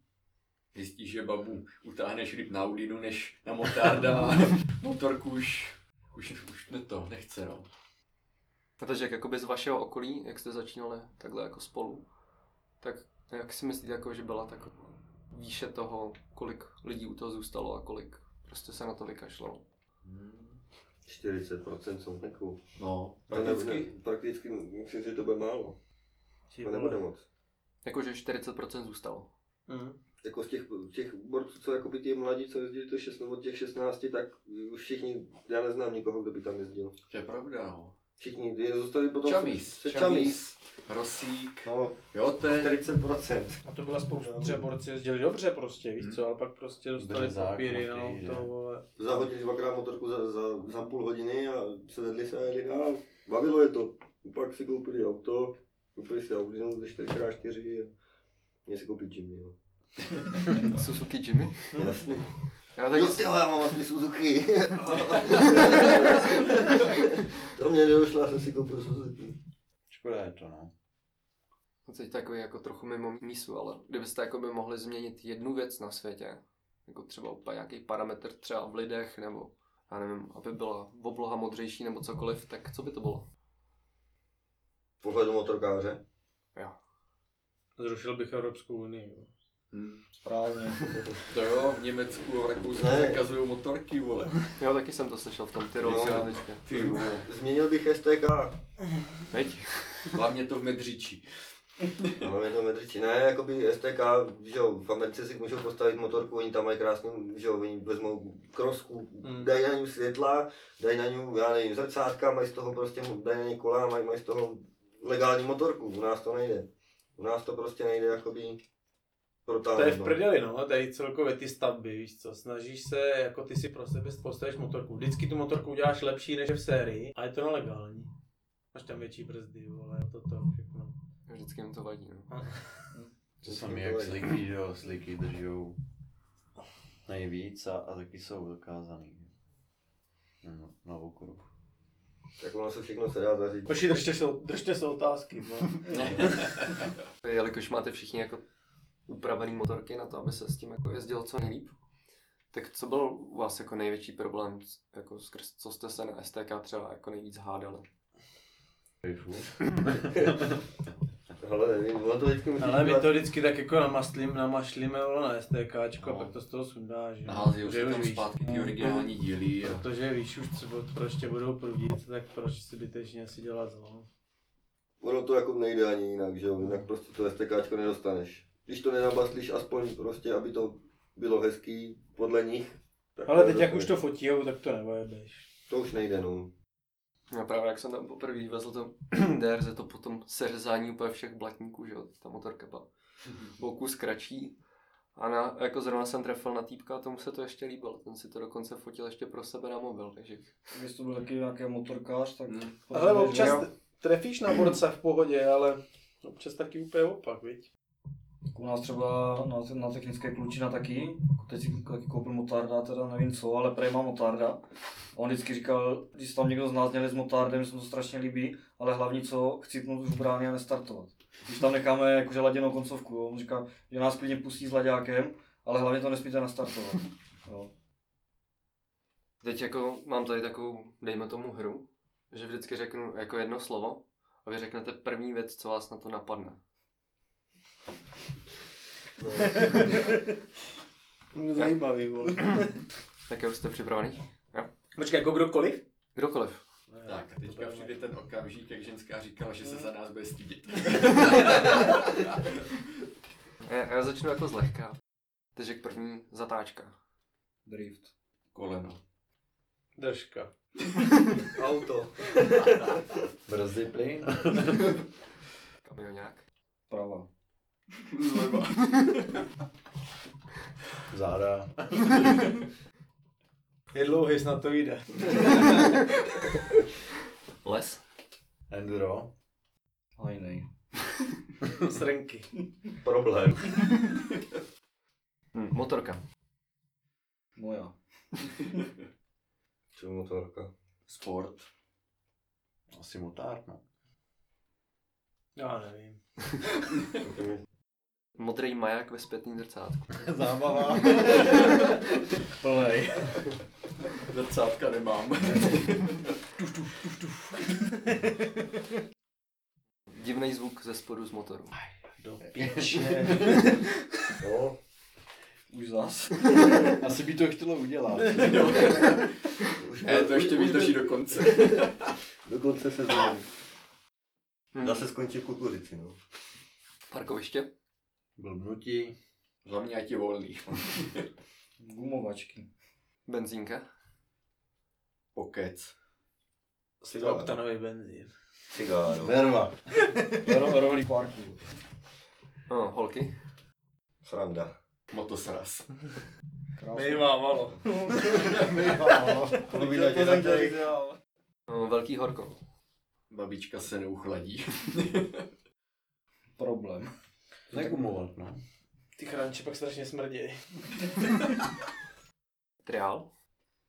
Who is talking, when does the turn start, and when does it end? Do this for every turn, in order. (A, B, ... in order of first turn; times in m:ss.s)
0:00.7-0:07.7 A
0:08.8-0:12.0 B
0:12.8-0:19.6 B
0:20.1-0:20.5 A
0:21.1-0:22.6 C
0:22.8-0:23.9 A
0:23.3-0:25.8 C
0:26.5-0:27.0 D
0:26.6-0:27.2 C
0:27.8-0:29.3 B
0:29.7-0:30.0 D
0:30.2-0:36.9 C
0:37.1-0:38.0 A
0:38.2-0:40.4 C
0:39.2-0:42.8 A
0:41.6-0:43.6 C
0:43.6-0:48.9 D
0:44.2-0:44.6 C
0:47.0-0:48.5 E
0:49.0-0:57.9 C
0:58.7-0:59.6 C
1:00.6-1:01.8 B
1:01.8-1:02.3 C
1:02.8-1:03.3 B
1:02.9-1:09.4 C
1:09.9-1:10.7 E
1:11.9-1:23.3 B
1:25.0-1:26.0 C
1:27.8-1:29.3 D
1:29.7-1:30.0 A
1:30.2-1:30.9 F
1:31.3-1:34.5 A
1:32.7-1:33.2 C
1:34.6-1:36.6 B
1:35.8-1:38.6 C
1:35.8-1:37.3 A
1:39.3-1:40.2 B
1:40.1-1:41.3 A
1:41.8-1:42.2 A
1:42.2-1:58.6 C
1:49.2-1:49.5 D
1:59.5-2:00.2 C
1:59.7-2:08.1 D
2:08.7-2:10.9 D
2:11.3-2:12.3 B
2:12.3-2:12.6 D
2:13.4-2:15.8 E
2:13.4-2:14.3 C
2:17.1-2:19.3 E
2:20.4-2:21.5 E
2:22.4-2:23.8 C
2:23.7-2:25.9 D
2:25.9-2:26.3 E
2:27.2-2:28.4 B
2:29.1-2:31.7 B
2:32.5-2:37.8 B
2:39.0-2:40.6 E
2:41.4-2:43.1 C
2:42.6-2:49.1 D
2:46.0-2:46.3 A
2:47.2-2:49.8 A
2:49.6-2:54.1 D
2:55.0-3:03.9 C
3:03.3-3:05.5 D
3:05.7-3:06.5 C
3:07.3-3:12.9 B
3:13.5-3:14.6 B
3:15.2-3:20.5 B
3:20.7-3:23.7 F
3:22.5-3:22.8 A
3:22.9-3:27.7 D
3:23.4-3:23.6 B
3:28.5-3:34.6 F
3:35.2-3:47.7 F
3:49.4-3:56.6 B
3:59.2-3:59.7 C
3:59.4-4:00.3 D
4:01.3-4:02.8 D
4:03.3-4:04.7 B
4:05.0-4:05.8 D
4:06.2-4:06.6 B
4:06.9-4:08.1 D
4:07.1-4:12.2 A
4:13.6-4:15.0 B
4:15.6-4:16.9 B
4:17.7-4:18.1 F
4:18.5-4:19.0 A
4:20.0-4:20.5 D
4:21.5-4:23.0 C
4:23.5-4:25.0 E
4:25.8-4:26.4 B
4:26.9-4:27.3 F
4:28.1-4:29.2 A
4:31.1-4:32.4 E
4:33.9-4:35.9 D
4:37.6-4:38.0 B
4:38.7-4:39.3 E
4:40.2-4:40.7 F
4:41.8-4:42.5 D
4:43.0-4:43.9 C
4:45.5-4:46.2 B
4:47.6-4:48.0 F
4:50.0-4:50.7 C
4:51.1-4:51.7 A
4:52.9-4:53.8 E
4:55.6-4:56.2 D
4:57.2-4:57.6 C
4:58.4-5:00.3 B
5:00.2-5:01.6 E
5:01.1-5:01.7 F
5:02.6-5:03.5 F
5:04.2-5:06.4 A
5:10.1-5:11.8 B
5:12.2-5:13.8 D
5:12.6-5:13.1 E
5:14.4-5:14.8 C
5:15.7-5:16.6 F
5:17.0-5:19.1 E
5:18.3-5:19.3 A
5:19.8-5:21.8 C
5:20.0-5:22.1 A
5:22.5-5:23.5 C
5:24.8-5:25.0 B
5:24.8-5:26.2 C
5:27.1-5:27.7 B
5:28.4-5:29.2 E
5:29.6-5:31.3 A
5:31.8-5:32.7 F
5:33.3-5:33.8 B
5:35.3-5:35.9 A
5:37.0-5:38.3 D
5:37.1-5:37.5 C
5:38.7-5:39.4 C
5:39.2-5:39.8 E
5:40.4-5:41.6 F
5:42.7-5:43.3 B
5:44.2-5:44.7 C
5:45.1-5:46.0 A
5:46.8-5:47.3 F
5:46.9-5:48.5 D
5:47.8-5:51.2 F
5:48.3-5:49.7 E
5:49.6-5:50.9 C
5:51.7-5:52.6 B
5:53.3-5:55.5 A
5:56.6-5:57.1 F
5:57.7-5:58.6 E
5:59.2-6:01.1 D
6:02.8-6:03.3 B